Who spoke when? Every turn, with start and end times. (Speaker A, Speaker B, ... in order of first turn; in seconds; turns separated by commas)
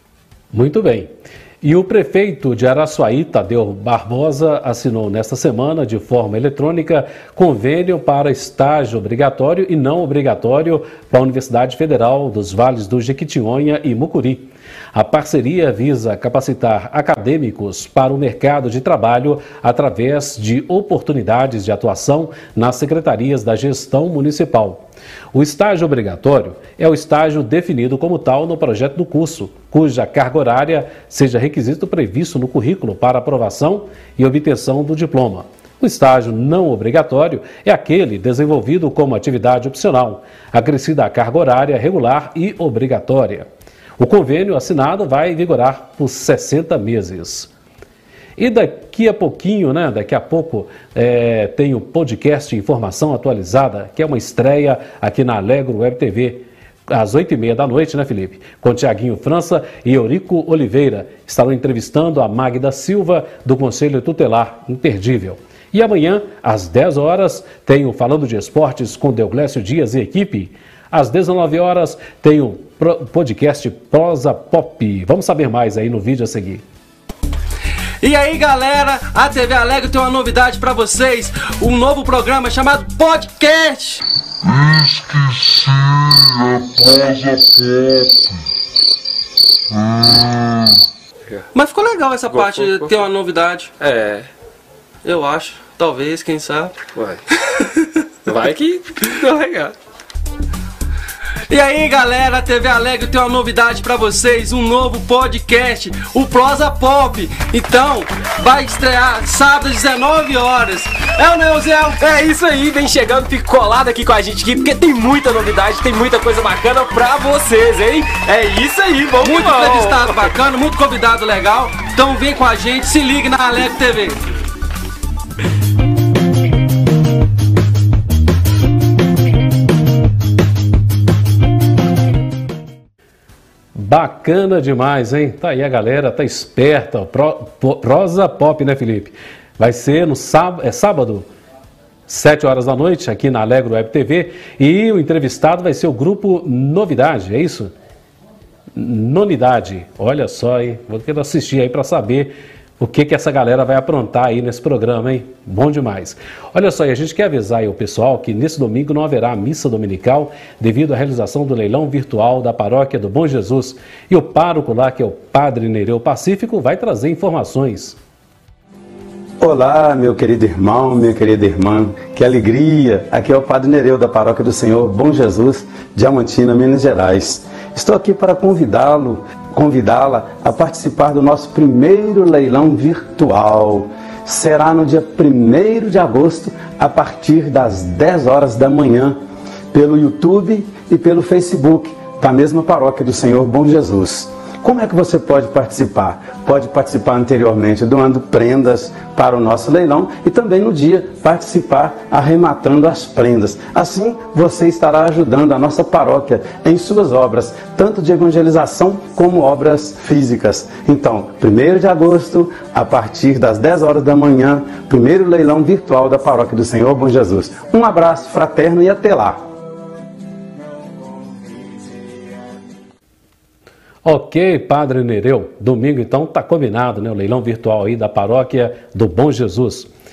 Speaker A: 0.5-43.5, Speaker A: 44.0-47.5, Speaker A: 48.4-76.6, Speaker B: 78.0-84.0, Speaker C: 84.4-88.3, Speaker C: 89.7-90.8, Speaker B: 91.5-93.8, Speaker D: 92.3-94.2, Speaker B: 95.0-96.8, Speaker D: 95.1-97.2, Speaker D: 98.3-99.7, Speaker B: 101.5-112.9, Speaker D: 107.3-107.9, Speaker D: 112.0-120.3, Speaker B: 119.2-124.2, Speaker A: 133.7-141.3, Speaker A: 142.1-147.7, Speaker A: 148.7-168.0, Speaker E: 169.4-189.2, Speaker E: 189.7-219.4, Speaker A: 224.0-229.9